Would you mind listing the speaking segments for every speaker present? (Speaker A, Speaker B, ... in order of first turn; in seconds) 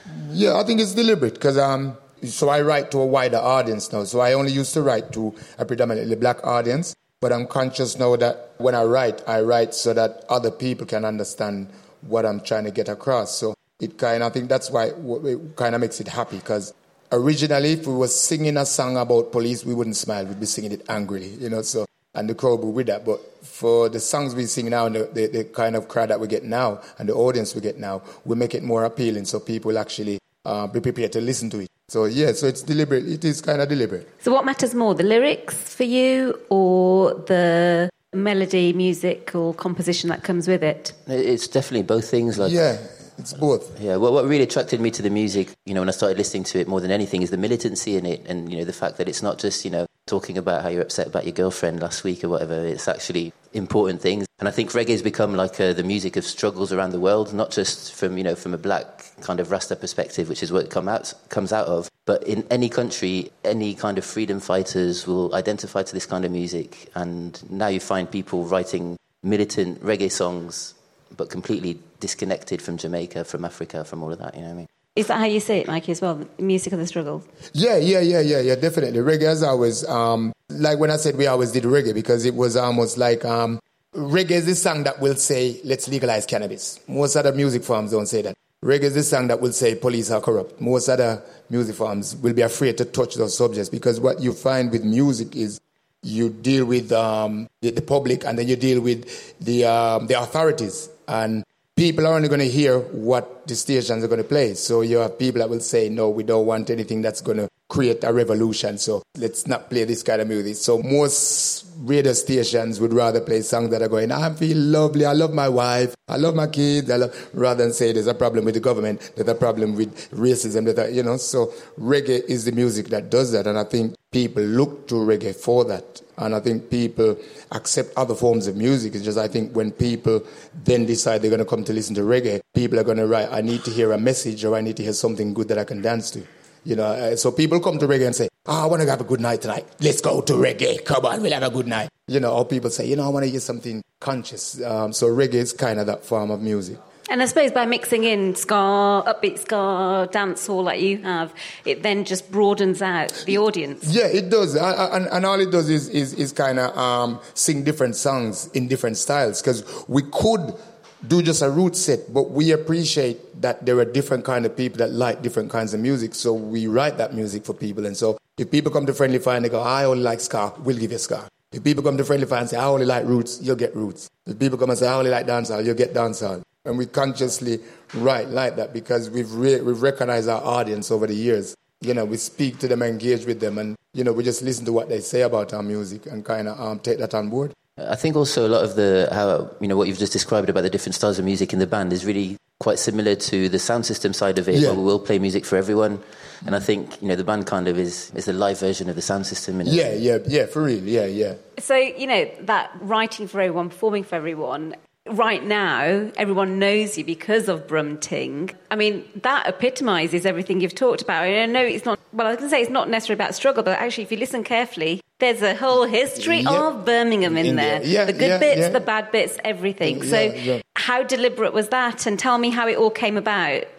Speaker A: 0.1-34.1, 42.4-43.8, 77.5-146.8, 153.8-187.5, 194.5-194.8, 199.6-201.4, 216.2-216.7, 217.2-218.8, 219.8-220.6
Speaker B: 34.2-41.0, 75.0-77.3, 147.1-153.9, 201.6-223.7
Speaker C: 41.1-42.6, 43.8-74.7, 187.8-200.0